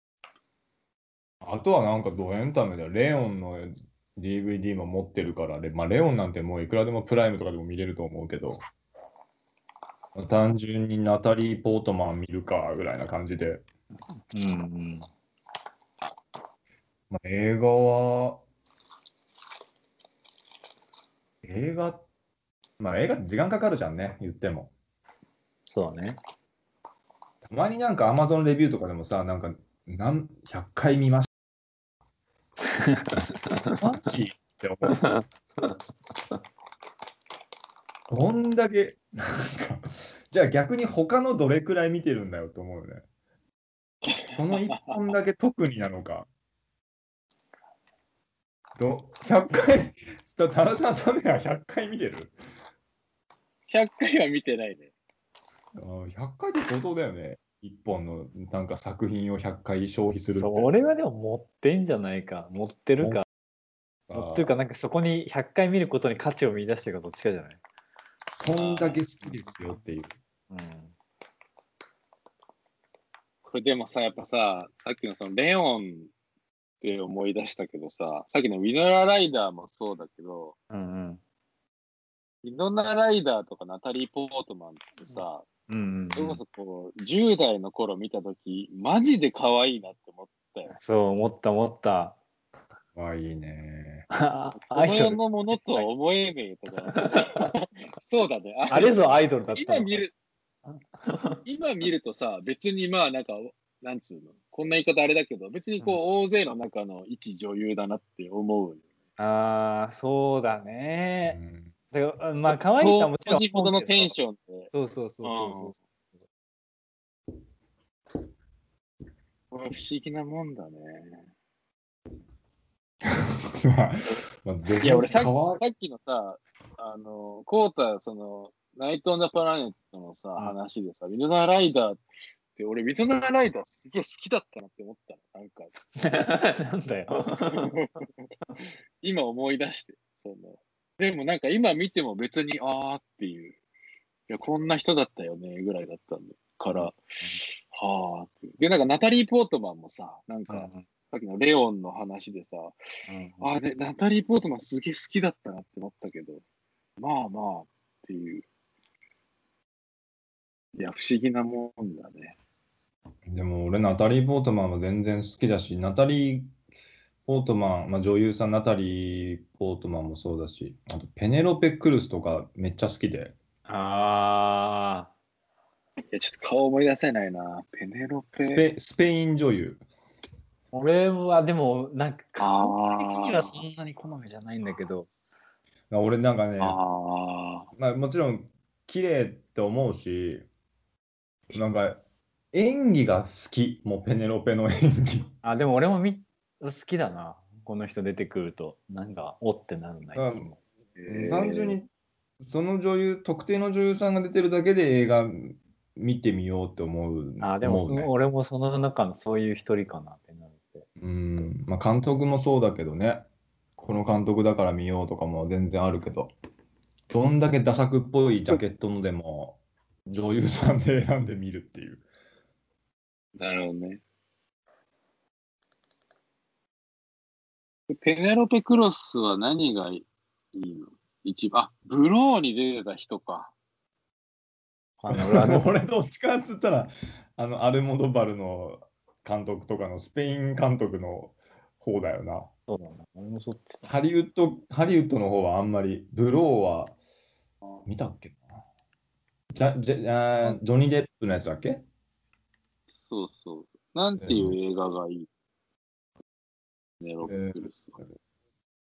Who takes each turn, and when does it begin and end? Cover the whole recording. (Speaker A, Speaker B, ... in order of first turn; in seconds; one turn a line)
Speaker A: 1.4-8.6
Speaker A: 10.1-13.6
Speaker B: 14.3-15.1
Speaker A: 17.1-18.4
Speaker A: 21.4-22.0
Speaker A: 22.8-24.7
Speaker B: 25.7-26.2
Speaker A: 27.4-31.3
Speaker B: 32.8-33.8
Speaker A: 33.8-35.1
Speaker B: 34.9-35.7
Speaker A: 38.1-43.0
Speaker C: 44.1-45.1
Speaker A: 44.3-46.3
Speaker A: 48.8-52.3
Speaker C: 53.7-54.9
Speaker A: 55.8-60.7
Speaker B: 60.3-63.2
Speaker A: 64.1-64.5
Speaker B: 64.1-67.6
Speaker A: 68.3-70.1
Speaker C: 68.6-69.0
Speaker B: 69.2-69.5
Speaker B: 70.5-70.9
Speaker C: 73.5-76.1
Speaker C: 76.8-80.6
Speaker B: 80.7-81.2
Speaker C: 82.4-85.5
Speaker B: 85.1-86.4
Speaker C: 86.2-90.7
Speaker B: 90.7-92.2
Speaker A: 92.9-94.1
Speaker B: 94.1-95.8
Speaker C: 94.7-100.1
Speaker B: 96.9-97.5
Speaker B: 98.7-100.0
Speaker B: 100.7-101.4
Speaker C: 101.5-108.8
Speaker B: 109.2-111.4
Speaker A: 111.3-111.7
Speaker B: 111.9-114.2
Speaker C: 112.8-114.7
Speaker B: 114.7-115.8
Speaker C: 115.2-115.7
Speaker C: 119.5-121.3
Speaker A: 123.0-125.6
Speaker C: 124.8-132.0
Speaker C: 132.6-135.7
Speaker B: 135.9-137.7
Speaker C: 137.5-138.1
Speaker C: 139.0-143.6
Speaker C: 144.3-152.8
Speaker B: 146.7-147.4
Speaker B: 150.5-150.9
Speaker B: 153.1-153.5
Speaker C: 153.4-156.4
Speaker C: 157.0-158.5
Speaker C: 160.8-162.3
Speaker A: 163.3-166.5
Speaker A: 167.3-173.4
Speaker B: 173.7-175.1
Speaker C: 176.1-178.7
Speaker A: 178.4-179.8
Speaker B: 180.7-185.1
Speaker C: 182.4-183.6
Speaker A: 185.9-186.8
Speaker C: 186.6-187.7
Speaker A: 187.8-190.5
Speaker A: 191.5-195.3
Speaker B: 195.4-200.6
Speaker A: 200.2-200.5
Speaker C: 201.0-201.8
Speaker A: 201.1-201.9
Speaker A: 202.4-208.1
Speaker B: 207.4-210.9
Speaker A: 211.0-213.3
Speaker A: 213.8-216.3
Speaker A: 217.1-222.0
Speaker C: 223.4-224.0
Speaker C: 227.9-233.5
Speaker B: 235.0-235.7
Speaker A: 235.1-242.5
Speaker B: 242.7-243.9
Speaker A: 243.9-247.0
Speaker A: 247.9-248.6
Speaker A: 249.5-251.8
Speaker C: 253.0-255.3
Speaker A: 254.2-254.6
Speaker C: 257.0-258.0
Speaker A: 257.3-258.1